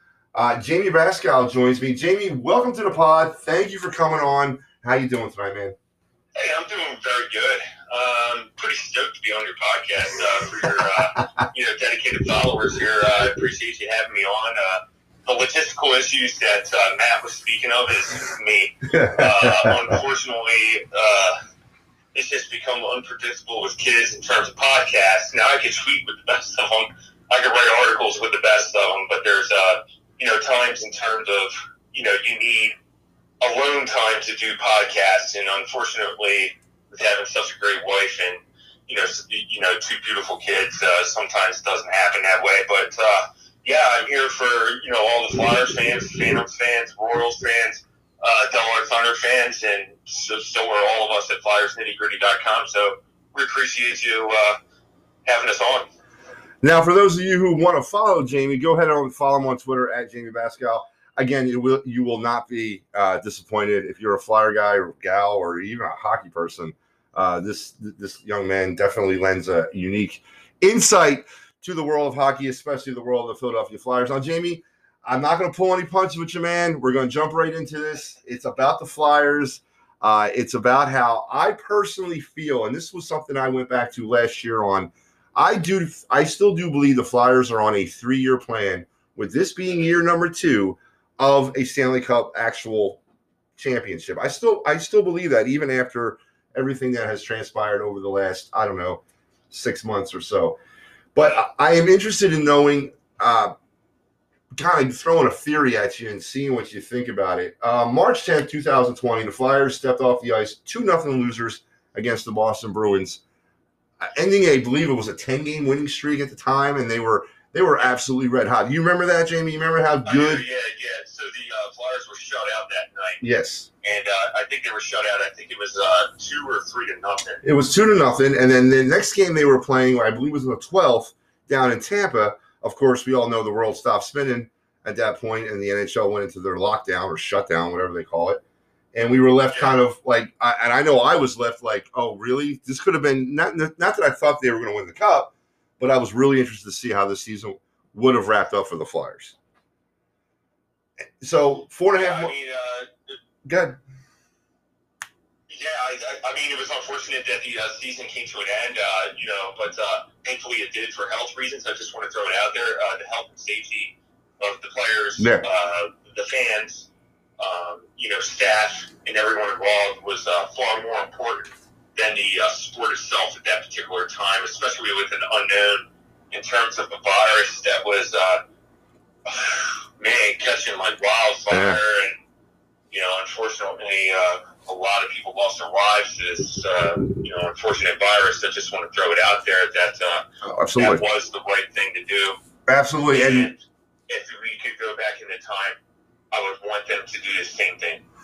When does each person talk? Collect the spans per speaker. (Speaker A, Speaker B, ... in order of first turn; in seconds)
Speaker A: 0.3-5.8, 18.9-19.8, 56.6-93.0, 93.5-100.6, 101.1-103.5, 104.5-113.2, 114.0-120.4, 123.2-123.7, 127.4-138.4, 138.9-149.3, 151.2-152.3, 153.4-153.8, 165.2-165.5, 181.5-181.8, 190.4-191.0, 192.7-193.5
Speaker B: 6.3-21.4, 22.1-32.7, 33.4-54.6, 55.2-55.9, 120.0-123.2, 123.8-127.4, 139.5-139.8, 151.9-153.2, 155.5-166.9, 167.4-178.4, 179.2-182.2, 182.9-190.2, 190.8-192.4, 193.1-195.8, 196.3-198.0